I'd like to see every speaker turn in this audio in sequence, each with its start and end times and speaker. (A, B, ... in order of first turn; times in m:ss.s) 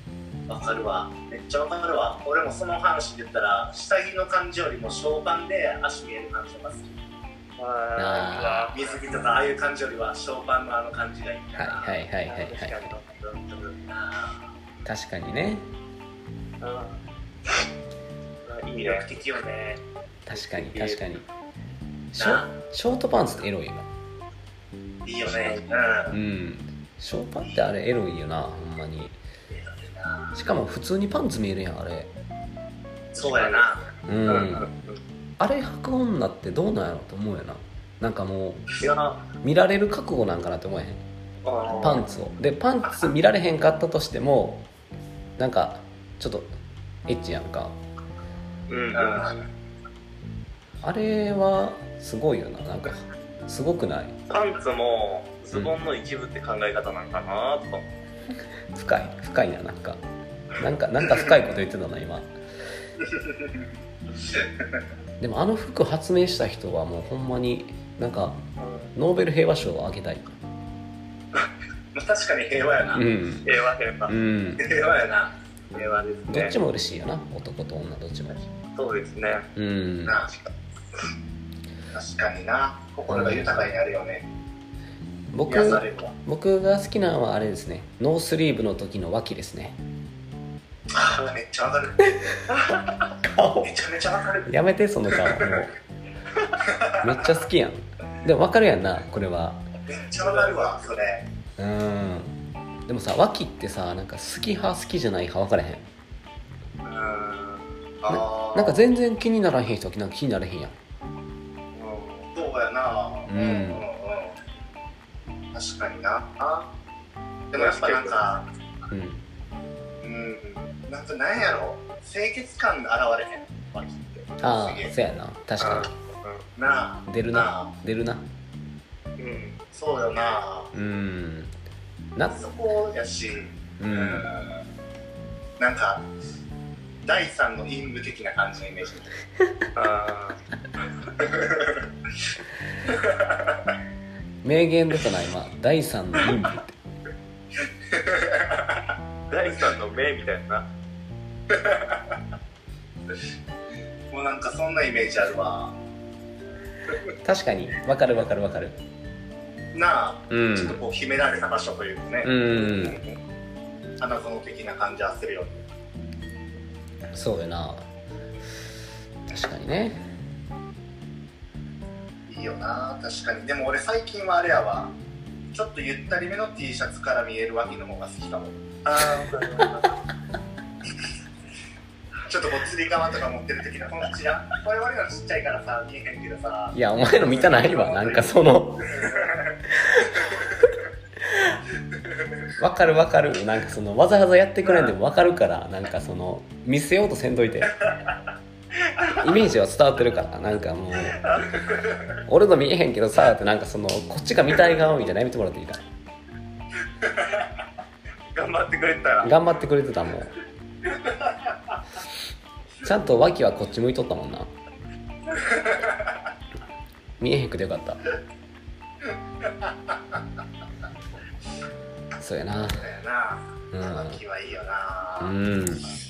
0:00.5-0:06.9 A
0:07.6-0:09.1 B
0:08.0-0:08.7 C
0:08.7-0:12.0 A
0:11.6-0:12.9 C
0:12.2-0:13.8 B
0:13.9-0:14.5 A
0:14.8-0:15.7 C
0:16.6-0:17.0 B
0:18.4-0:19.1 B
0:18.8-0:19.8 A
0:20.3-0:21.2 C
0:20.3-0:21.1 B
0:22.1-0:23.9 C
0:22.2-0:22.5 A
0:25.0-0:26.2 A
0:26.1-0:29.2 C
0:29.5-0:30.4 A
0:30.4-0:32.1 C
0:33.1-0:33.9 A
0:33.2-0:33.7 B
0:34.1-0:34.7 C
0:34.3-0:35.0 B
0:35.4-0:38.7 C
0:38.8-0:39.2 B
0:39.4-0:41.0 C
0:41.4-0:42.0 B
0:41.7-0:42.0 A
0:41.8-0:44.7 C
0:45.4-0:46.5 C
0:47.1-0:47.8 C
0:48.7-0:49.2 B
0:48.9-0:49.4 A
0:50.8-0:54.2 C
0:54.3-0:57.9 B
0:58.7-1:00.0 C
1:00.6-1:02.3 C
1:01.0-1:01.3 A
1:03.0-1:03.7 A
1:04.3-1:04.8 A
1:05.2-1:08.4 C
1:08.6-1:08.9 B
1:09.0-1:10.4 C
1:11.9-1:13.0 A
1:12.9-1:13.5 C
1:13.4-1:14.2 B
1:14.1-1:14.6 C
1:14.6-1:15.3 A
1:15.7-1:16.6 B
1:16.3-1:18.4 C
1:18.3-1:19.5 B
1:19.6-1:20.2 C
1:20.0-1:20.4 A
1:21.9-1:24.3 A
1:23.1-1:23.7 C
1:25.3-1:29.8 C
1:25.5-1:26.1 A
1:31.0-1:32.1 A
1:33.3-1:33.8 C
1:33.6-1:34.5 A
1:34.5-1:35.7 C
1:35.1-1:35.4 A
1:36.6-1:37.0 A
1:37.0-1:39.6 C
1:39.9-1:41.2 A
1:40.2-1:40.9 B
1:41.6-1:42.4 C
1:42.9-1:45.9 C
1:46.8-1:47.3 A
1:47.3-1:47.6 B
1:48.0-1:48.8 A
1:48.1-1:50.8 C
1:51.7-1:52.3 B
1:52.3-1:54.4 A
1:53.3-1:53.8 C
1:55.5-1:56.7 A
1:57.5-1:58.5 A
1:57.5-1:58.3 B
1:58.9-1:59.2 C
2:00.0-2:05.0 A
2:04.4-2:05.9 C
2:05.6-2:06.4 B
2:06.6-2:07.7 A
2:07.1-2:08.2 C
2:09.2-2:09.6 B
2:09.7-2:10.7 A
2:10.7-2:11.5 C
2:12.3-2:14.6 A
2:13.8-2:14.3 C
2:15.6-2:16.0 A
2:17.0-2:19.1 A
2:19.8-2:20.4 B
2:21.2-2:21.8 A
2:22.9-2:23.7 A
2:24.4-2:26.7 C
2:27.9-2:28.8 A
2:29.3-2:30.7 B
2:31.5-2:32.1 A
2:34.1-2:35.8 A
2:37.2-2:38.8 C
2:39.7-2:43.2 A
2:40.3-2:40.8 C
2:42.2-2:43.0 C
2:44.0-2:45.6 A
2:47.1-2:47.8 C
2:49.3-2:50.0 C
2:52.3-2:54.9 A
2:55.5-2:59.3 A
2:58.9-3:00.0 B
3:02.3-3:08.3 A
3:06.7-3:09.0 C
3:08.8-3:09.6 A
3:09.8-3:10.4 C
3:12.6-3:17.8 C
3:19.2-3:21.2 C
3:21.2-3:21.6 B
3:22.2-3:25.8 C
3:28.3-3:29.3 B
3:29.2-3:30.3 C
3:32.8-3:34.5 C
3:35.4-3:36.0 A
3:37.2-3:38.0 C
3:39.6-3:39.9 A
3:42.2-3:42.8 C
3:42.5-3:45.4 A
3:43.7-3:44.2 C
3:45.2-3:45.9 C